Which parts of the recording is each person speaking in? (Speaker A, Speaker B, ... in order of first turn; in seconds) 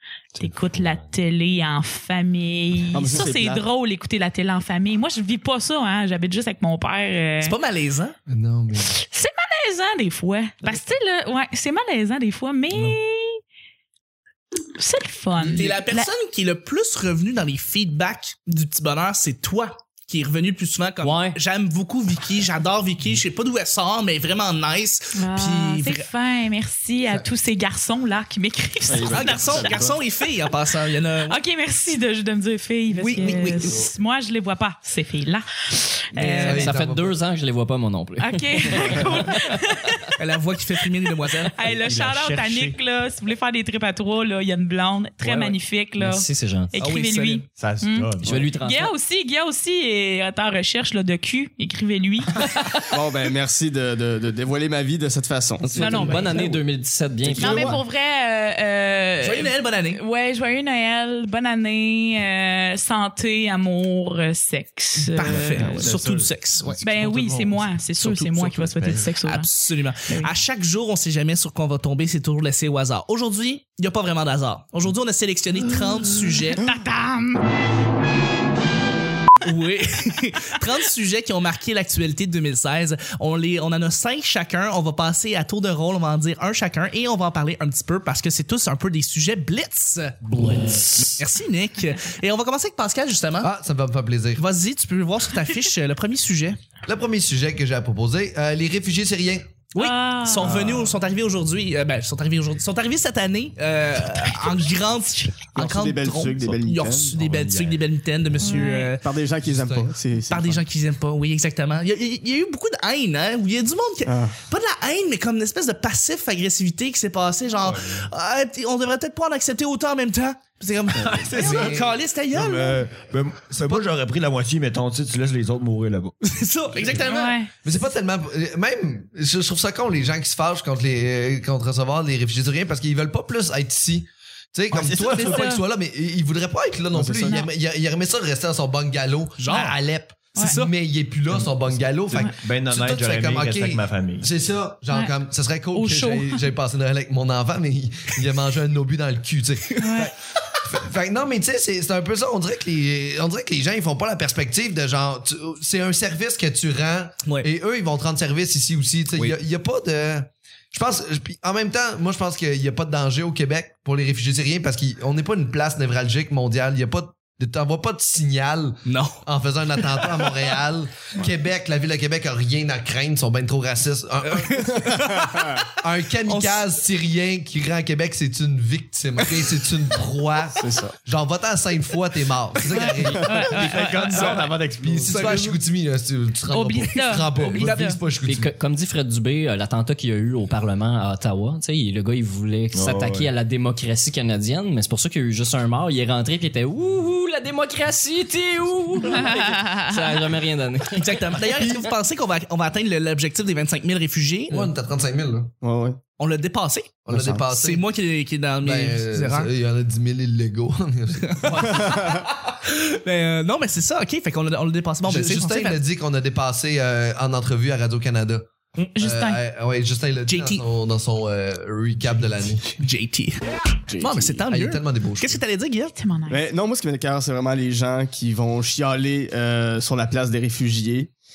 Speaker A: 0.3-1.1, 41.6-42.8, 47.5-48.5, 65.3-67.8, 68.7-69.1, 107.1-108.5, 117.6-118.1, 120.9-126.2, 134.7-135.4, 141.3-144.3, 183.2-185.3, 192.7-193.3
Speaker B: 0.4-7.5, 8.8-13.4, 14.7-16.1, 25.1-30.5, 31.3-36.7, 38.2-40.1, 40.7-52.8, 55.7-56.5, 57.4-65.8, 66.8-69.5, 70.0-70.3, 76.5-77.5, 99.8-100.6, 104.1-105.4, 108.4-109.0, 127.0-127.8, 135.2-135.6, 140.3-140.6, 145.7-146.4, 149.8-150.1, 182.7-184.4, 186.5-188.0, 199.1-199.8, 218.9-219.4, 225.9-226.5
Speaker C: 2.9-3.6, 28.9-30.0, 52.9-56.5, 57.2-57.8, 65.5-65.8, 105.5-107.1, 109.0-110.6, 114.0-114.4, 136.9-137.4, 175.1-175.6, 180.6-180.9, 205.6-206.0, 207.1-207.5, 211.7-212.2, 223.9-224.4, 226.3-231.1
Speaker D: 7.4-8.1, 15.5-26.1, 29.1-31.4, 32.9-33.8, 36.1-36.7, 40.2-41.5, 46.8-47.4, 59.2-60.0, 65.0-66.8, 68.0-76.6, 79.4-93.5, 94.3-96.6, 99.7-109.0, 110.3-122.8, 126.2-127.4, 134.9-135.4, 139.4-139.8, 140.4-140.7, 168.8-169.2, 169.8-170.2, 174.2-175.7, 176.2-176.8, 183.6-185.6, 187.5-187.9, 200.9-204.7, 206.2-207.0, 207.5-209.5, 211.2-215.8, 220.3-220.6, 222.8-223.4, 224.0-225.9
Speaker E: 8.3-8.9, 36.4-37.2, 93.4-94.4, 96.8-99.6, 109.4-109.9, 121.4-122.0, 127.6-150.0, 150.6-174.9, 175.8-183.7, 184.8-188.5, 204.5-205.5, 207.1-207.8, 208.6-211.8, 215.0-222.7, 224.5-225.4
Speaker F: 21.0-21.4, 36.5-39.7, 45.2-46.7, 48.2-48.9, 55.8-57.8, 90.3-91.2, 188.2-201.8